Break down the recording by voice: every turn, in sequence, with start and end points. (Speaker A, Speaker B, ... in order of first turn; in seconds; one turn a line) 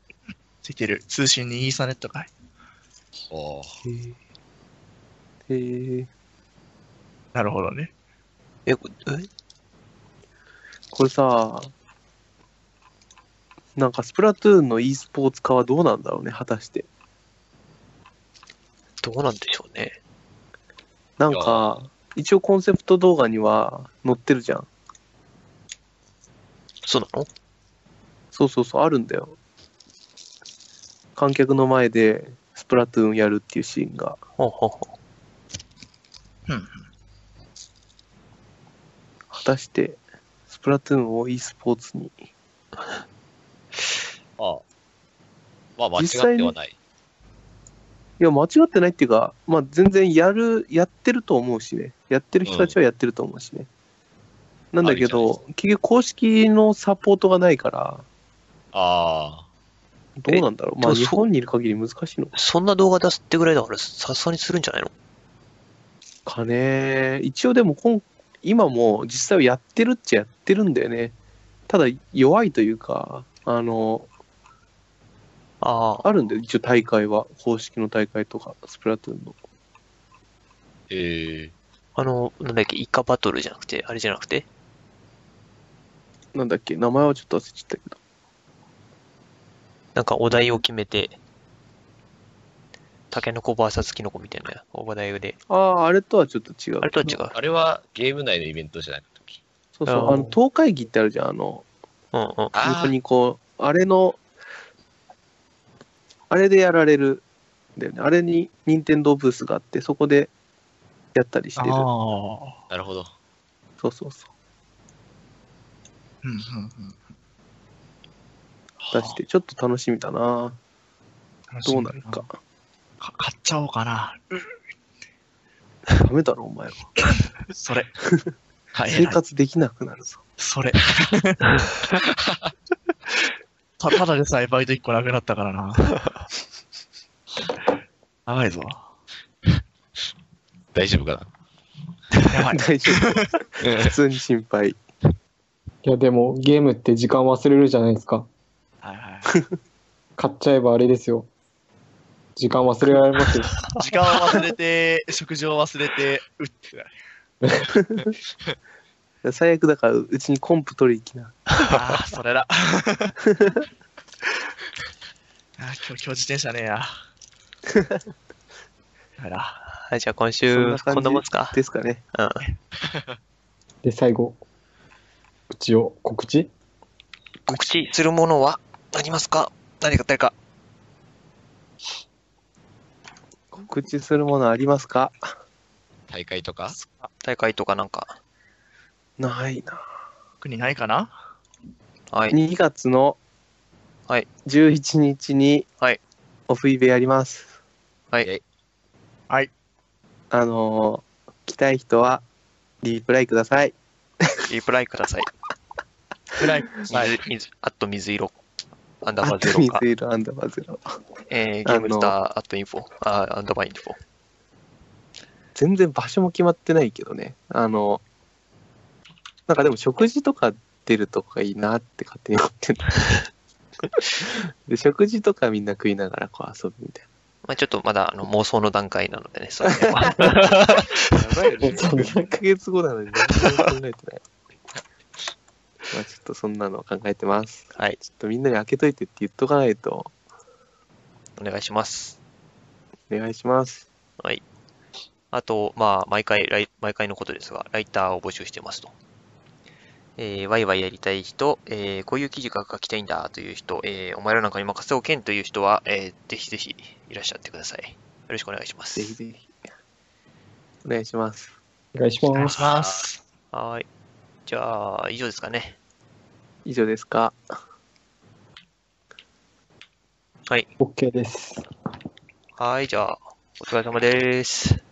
Speaker A: 0.6-2.3
Speaker B: 3.3-3.8
Speaker C: 3.8-4.1
Speaker C: 5.5-6.1
Speaker A: 7.3-7.9
Speaker D: 8.7-9.3
Speaker C: 10.9-11.7
Speaker C: 13.8-16.9
Speaker D: 19.0-20.0
Speaker C: 21.2-24.7
Speaker B: 21.3-21.6
Speaker D: 26.8-27.3
Speaker C: 28.3-29.3
Speaker C: 31.1-34.2
Speaker D: 34.4-34.9
Speaker A: 36.5-36.9
Speaker C: 39.3-40.0
Speaker C: 40.5-42.1
Speaker B: 44.4-44.6
Speaker B: 45.8-46.7
Speaker C: 46.0-46.5
Speaker C: 48.2-53.7
Speaker B: 52.4-52.7
Speaker C: 54.7-58.0
Speaker B: 54.8-55.3
Speaker B: 58.7-59.5
Speaker C: 60.2-62.3
Speaker D: 60.3-61.2
Speaker D: 62.3-64.9
Speaker C: 66.2-71.1
Speaker C: 71.7-74.1
Speaker D: 75.6-76.1
Speaker C: 76.0-79.4
Speaker B: 80.9-81.5
Speaker D: 82.0-84.5
Speaker C: 86.3-88.0
Speaker D: 89.9-91.2
Speaker D: 93.1-95.4
Speaker C: 95.5-97.2
Speaker D: 96.8-97.3
Speaker B: 97.3-99.4
Speaker C: 99.8-101.7
Speaker D: 99.9-100.4
Speaker D: 102.1-102.6
Speaker B: 102.5-102.9
Speaker C: 102.6-104.2
Speaker C: 106.3-107.2
Speaker C: 107.8-110.3
Speaker C: 111.1-111.9
Speaker A: 111.6-112.6
Speaker B: 112.7-113.1
Speaker C: 113.8-114.2
Speaker A: 116.2-117.0
Speaker A: 118.8-119.2
Speaker C: 118.9-120.6
Speaker A: 121.5-122.2
Speaker C: 121.7-122.3
Speaker A: 123.0-124.5
Speaker C: 126.0-127.0
Speaker A: 127.5-127.9
Speaker A: 128.7-129.2
Speaker C: 128.9-130.2
Speaker A: 130.4-131.5
Speaker B: 132.1-132.4
Speaker A: 133.8-135.9
Speaker A: 138.2-138.8
Speaker B: 140.7-141.3
Speaker A: 142.3-143.2
Speaker C: 142.5-144.8
Speaker B: 143.6-143.9
Speaker E: 145.8-148.3
Speaker A: 148.8-149.4
Speaker E: 150.2-151.3
Speaker E: 152.3-153.5
Speaker D: 153.7-154.3
Speaker A: 153.8-156.9
Speaker C: 157.7-158.1
Speaker C: 159.2-161.4
Speaker A: 161.7-163.2
Speaker A: 165.6-166.9
Speaker C: 167.7-168.0
Speaker A: 169.2-169.6
Speaker D: 169.7-171.6
Speaker C: 170.5-172.0
Speaker D: 172.1-172.5
Speaker B: 172.8-173.1
Speaker E: 173.8-174.4
Speaker E: 175.5-176.5
Speaker D: 177.5-180.3
Speaker A: 177.5-177.8
Speaker C: 183.6-185.2
Speaker B: 186.1-186.8
Speaker D: 187.2-188.1
Speaker C: 189.2-189.8
Speaker A: 190.4-191.1
Speaker D: 192.1-192.4
Speaker C: 192.3-193.2
Speaker C: 194.4-195.7
Speaker C: 196.5-197.5
Speaker C: 200.3-202.2
Speaker C: 202.8-203.8
Speaker D: 204.5-205.3
Speaker A: 206.4-207.2
Speaker D: 206.9-208.3
Speaker D: 209.0-209.8
Speaker C: 209.2-210.9
Speaker D: 211.3-214.0
Speaker C: 211.6-212.1
Speaker C: 215.5-218.0
Speaker C: 219.5-223.0
Speaker C: 224.2-227.0
Speaker D: 227.4-231.0
Speaker C: 229.8-234.2
Speaker E: 231.6-232.3
Speaker C: 235.9-240.1
Speaker D: 241.4-242.2
Speaker C: 243.1-243.8
Speaker D: 245.3-248.9
Speaker D: 250.2-259.1
Speaker C: 258.9-259.5
Speaker C: 260.8-261.5
Speaker E: 261.9-262.6
Speaker A: 262.3-263.2
Speaker B: 262.6-263.1
Speaker D: 263.5-263.9
Speaker D: 264.4-265.8
Speaker C: 266.6-267.4
Speaker E: 270.8-271.6
Speaker D: 272.6-274.8